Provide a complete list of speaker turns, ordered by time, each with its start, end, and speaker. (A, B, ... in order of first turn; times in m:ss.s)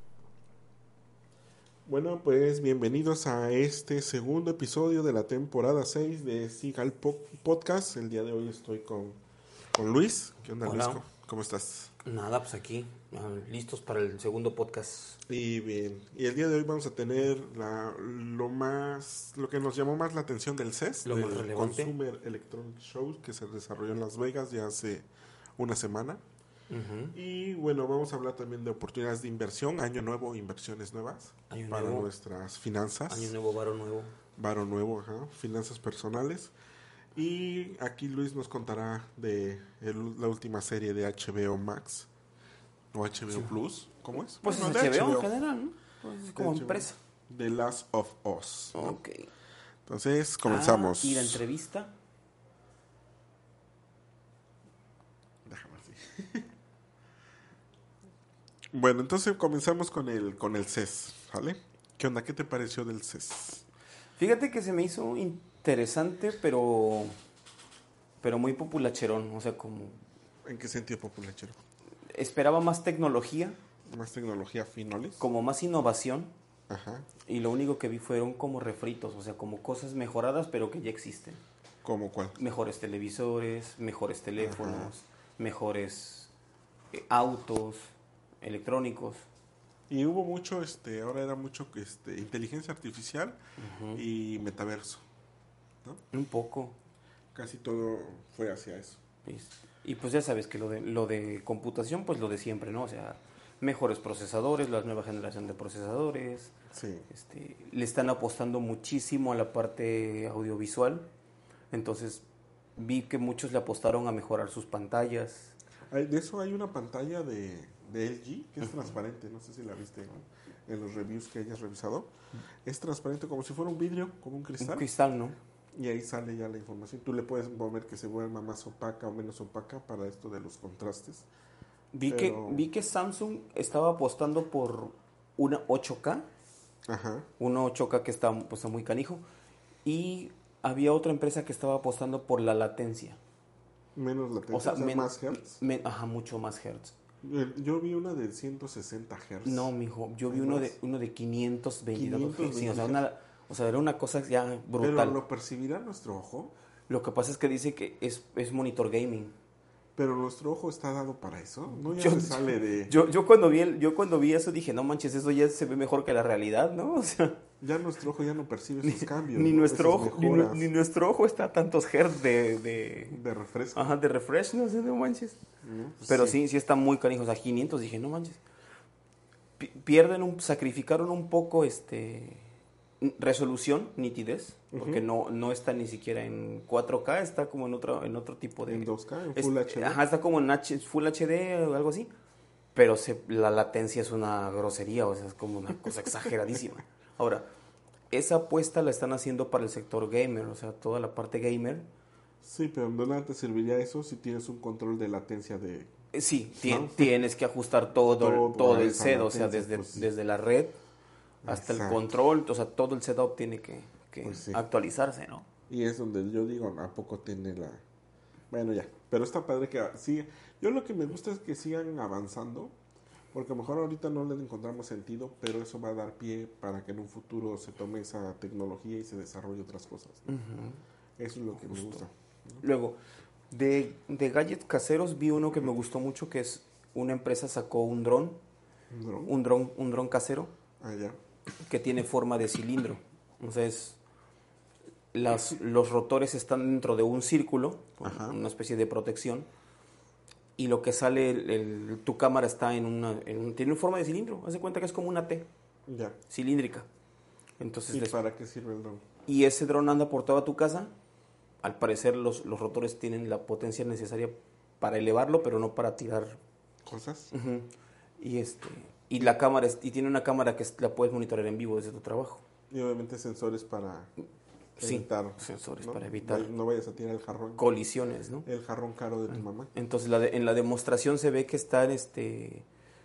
0:01.9-0:09.2 A
0:09.7-0:11.9 A
0:10.6-0:11.0 B
0:12.0-0:15.2 B
0:15.3-0:26.2 A
0:21.0-0:21.9 B
0:26.7-0:27.2 B
0:27.1-0:33.4 A
0:31.5-0:32.1 B
0:33.1-0:34.2 B
0:34.4-0:36.5 A
0:37.1-0:42.1 A
0:42.9-0:45.3 A
0:44.4-0:47.0 B
0:46.4-0:49.0 A
0:48.7-0:49.3 B
0:49.9-0:51.4 A
0:50.4-0:52.0 B
0:55.5-0:56.5 A
0:58.7-1:03.6 A
1:04.2-1:07.2 B
1:08.2-1:10.0 B
1:10.4-1:11.6 A
1:12.1-1:13.6 B
1:13.9-1:15.3 A
1:15.2-1:16.3 B
1:16.7-1:17.1 A
1:17.3-1:21.4 B
1:21.8-1:22.4 A
1:22.4-1:26.3 B
1:24.4-1:24.9 A
1:26.9-1:29.2 B
1:29.9-1:33.4 A
1:33.6-1:34.0 B
1:33.9-1:35.0 A
1:36.1-1:36.8 B
1:37.3-1:39.0 A
1:39.2-1:46.5 B
1:46.7-1:47.1 A
1:47.1-1:51.1 B
1:51.7-1:52.2 B
1:52.8-1:55.5 B
1:55.9-2:02.1 A
2:02.6-2:04.9 A
2:04.6-2:05.4 B
2:05.8-2:11.3 A
2:11.9-2:16.3 B
2:12.1-2:12.6 A
2:16.9-2:17.3 A
2:17.4-2:19.2 B
2:19.8-2:23.2 B
2:24.0-2:25.6 A
2:24.5-2:27.0 B
2:27.2-2:29.7 A
2:29.4-2:35.2 B
2:30.3-2:30.7 A
2:32.0-2:33.0 A
2:34.8-2:36.5 A
2:36.9-2:39.3 B
2:40.0-2:43.0 A
2:41.7-2:47.4 B
2:47.6-2:50.7 A
2:48.8-2:53.2 B
2:53.1-2:54.0 A
2:53.8-2:55.4 B
2:55.6-2:56.4 A
2:56.0-2:58.4 B
2:59.6-3:02.5 B
3:03.0-3:12.1 B
3:04.7-3:05.0 A
3:08.7-3:10.0 A
3:12.8-3:17.5 B
3:18.1-3:21.9 B
3:22.4-3:25.9 A
3:26.1-3:30.8 B
3:26.6-3:27.2 A
3:28.2-3:30.1 A
3:31.4-3:32.1 A
3:31.5-3:35.5 B
3:34.2-3:34.6 A
3:35.7-3:37.8 A
3:38.5-3:42.8 A
3:43.3-3:50.3 A
3:50.3-3:50.8 B
3:51.2-3:52.6 A
3:51.5-3:52.0 B
3:52.6-3:53.0 B
3:53.5-3:58.4 B
3:58.9-3:59.3 A
3:59.2-4:00.5 B
4:00.8-4:01.2 A
4:01.6-4:04.0 B
4:05.1-4:09.5 B
4:08.0-4:08.4 A
4:10.6-4:15.5 B
4:15.9-4:16.2 A
4:16.3-4:16.9 B
4:17.6-4:18.2 B
4:17.9-4:19.0 A
4:19.3-4:20.9 B
4:21.6-4:26.4 B
4:26.9-4:27.3 A
4:27.3-4:32.4 B
4:32.7-4:34.1 A
4:34.8-4:37.7 A
4:34.8-4:36.5 B
4:37.6-4:38.5 B
4:38.4-4:39.7 A
4:39.7-4:42.7 B